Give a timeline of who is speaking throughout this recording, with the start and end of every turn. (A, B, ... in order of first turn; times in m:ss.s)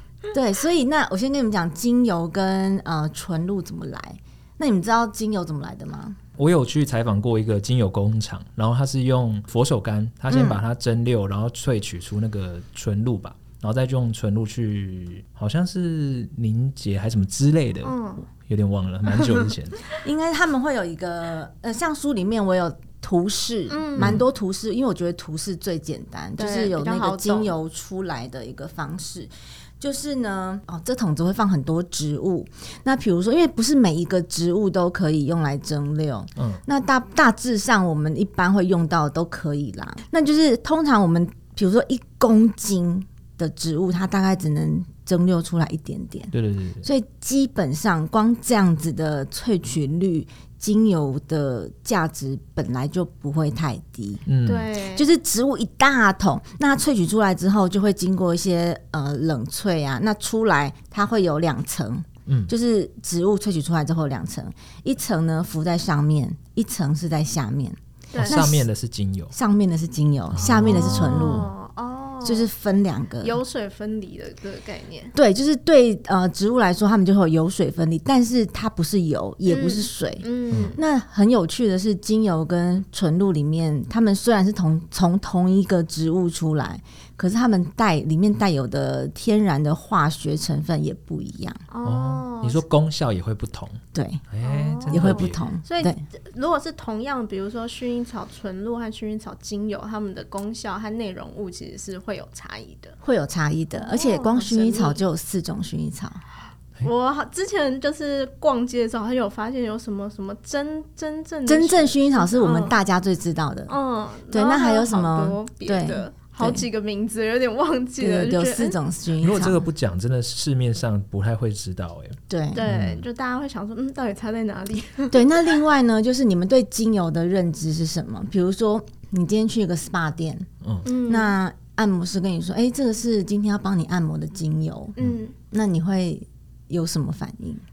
0:00.3-0:06.2 A
0:06.4-0:19.8 B
0:10.3-0:10.6 A
0:17.8-0:18.2 C
0:19.1-0:19.5 C
0:19.9-0:54.3 A
0:23.7-0:24.2 C
0:24.0-0:24.2 B
0:26.4-0:27.5 C
0:36.4-0:36.6 B
0:46.3-0:46.9 B
0:54.3-0:54.7 B
0:54.5-0:55.1 C
0:54.9-1:08.6 A
1:02.3-1:02.5 B
1:08.1-1:08.5 C
1:08.2-1:09.3 B
1:09.3-1:11.5 A
1:10.3-1:11.5 B
1:10.7-1:12.5 C
1:12.2-1:13.4 A
1:13.2-1:15.1 C
1:15.1-1:31.6 A
1:19.5-1:20.8 C
1:20.5-1:20.8 B
1:31.7-1:32.6 C
1:31.8-1:35.4 B
1:33.9-1:34.2 A
1:34.4-1:43.0 C
1:34.9-1:36.0 A
1:43.0-1:46.2 A
1:43.8-1:45.0 C
1:46.8-1:52.8 C
1:51.5-1:53.7 A
1:53.7-1:58.8 C
1:54.3-1:56.6 A
1:58.0-1:59.6 A
1:59.2-2:03.1 B
2:02.3-2:02.6 A
2:02.5-2:05.6 C
2:05.1-2:10.5 A
2:10.6-2:10.9 B
2:10.8-2:11.3 C
2:11.0-2:17.6 A
2:15.0-2:15.4 C